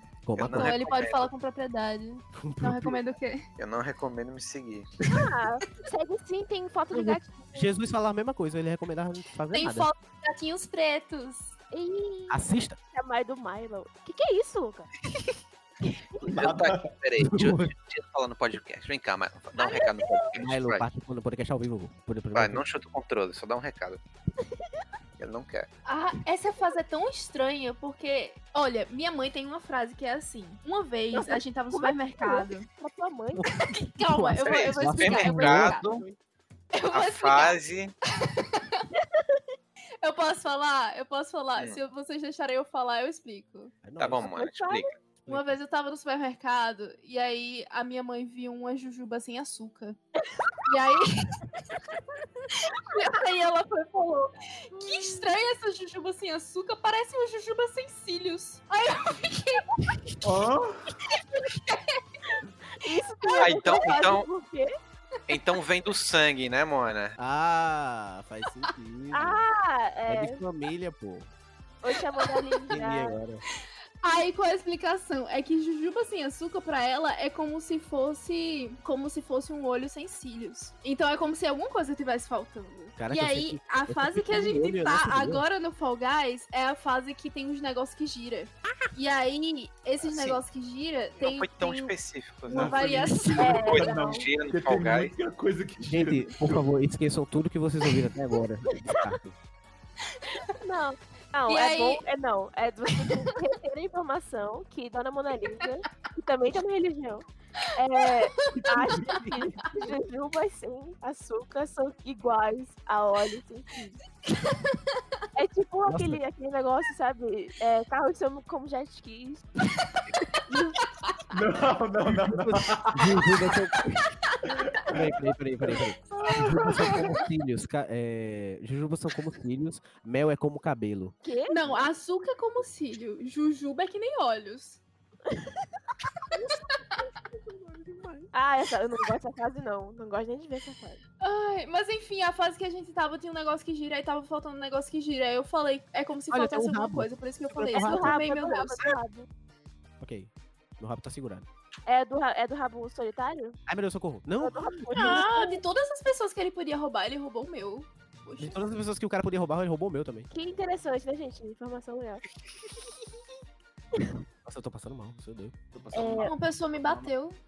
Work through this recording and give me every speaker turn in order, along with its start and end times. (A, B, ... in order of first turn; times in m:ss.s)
0:00.2-0:00.8 A
0:00.4-0:01.3 B
0:00.5-0:03.4 C
0:02.3-0:03.0 A
0:03.6-0:04.9 B
0:05.1-0:07.7 D
0:06.9-0:09.9 A
0:09.5-0:11.5 C
0:11.7-0:14.9 D
0:12.3-0:12.8 A
0:15.8-0:16.2 D
0:16.2-0:20.8 B
0:16.2-0:16.8 E
0:17.2-0:17.7 A
0:19.6-0:20.3 D
0:20.3-0:22.6 A
0:22.3-0:24.0 B
0:24.4-0:24.8 D
0:25.2-0:25.7 B
0:25.8-0:32.7 C
0:31.1-0:33.4 D
0:33.3-0:35.8 A
0:33.6-0:35.9 C
0:34.4-0:36.0 B
0:36.7-0:37.6 C
0:36.9-0:37.9 B
0:38.2-0:38.9 C
0:39.0-0:39.4 D
0:40.0-0:43.7 C
0:43.8-0:44.3 A
0:44.0-0:44.9 B
0:44.2-0:44.9 D
0:45.2-0:45.6 A
0:45.3-0:50.0 C
0:50.2-0:50.7 D
0:50.6-0:51.4 C
0:52.5-1:00.1 C
0:54.8-0:55.2 D
1:00.2-1:01.0 E
1:01.1-1:02.0 C
1:02.7-1:04.7 D
1:03.2-1:03.5 C
1:03.4-1:04.3 B
1:05.3-1:07.2 B
1:07.2-1:09.4 A
1:09.1-1:10.4 D
1:10.1-1:11.3 A
1:11.8-1:13.2 D
1:12.2-1:12.7 C
1:12.7-1:13.4 A
1:14.0-1:31.9 C
1:23.0-1:25.4 A
1:30.0-1:30.4 B
1:31.2-1:35.1 B
1:32.5-1:34.2 C
1:32.5-1:36.6 E
1:33.3-1:34.0 D
1:35.8-1:39.4 A
1:38.7-1:39.2 D
1:40.4-1:47.2 D
1:41.5-1:42.0 C
1:43.0-1:43.3 C
1:47.8-1:54.0 D
1:48.2-1:48.6 C
1:48.5-1:49.9 A
1:54.3-1:54.8 C
1:55.4-1:59.5 D
1:55.8-1:56.2 A
2:00.5-2:00.8 D
2:01.3-2:03.3 E
2:02.3-2:04.0 A
2:04.5-2:05.1 E
2:04.9-2:11.1 A
2:05.6-2:06.9 E
2:06.2-2:07.1 C
2:11.2-2:11.6 D
2:11.5-2:14.8 C
2:15.3-2:15.7 D
2:17.3-2:18.3 A
2:18.3-2:21.0 D
2:21.2-2:28.8 C
2:26.3-2:28.2 A
2:27.7-2:29.3 D
2:30.0-2:31.5 A
2:31.8-2:33.6 D
2:33.7-2:35.2 A
2:34.4-2:35.6 D
2:34.9-2:38.7 C
2:38.4-2:40.3 A
2:40.3-2:42.2 D
2:44.4-2:45.5 A
2:45.7-2:47.1 E
2:45.9-2:46.3 D
2:46.0-2:47.4 C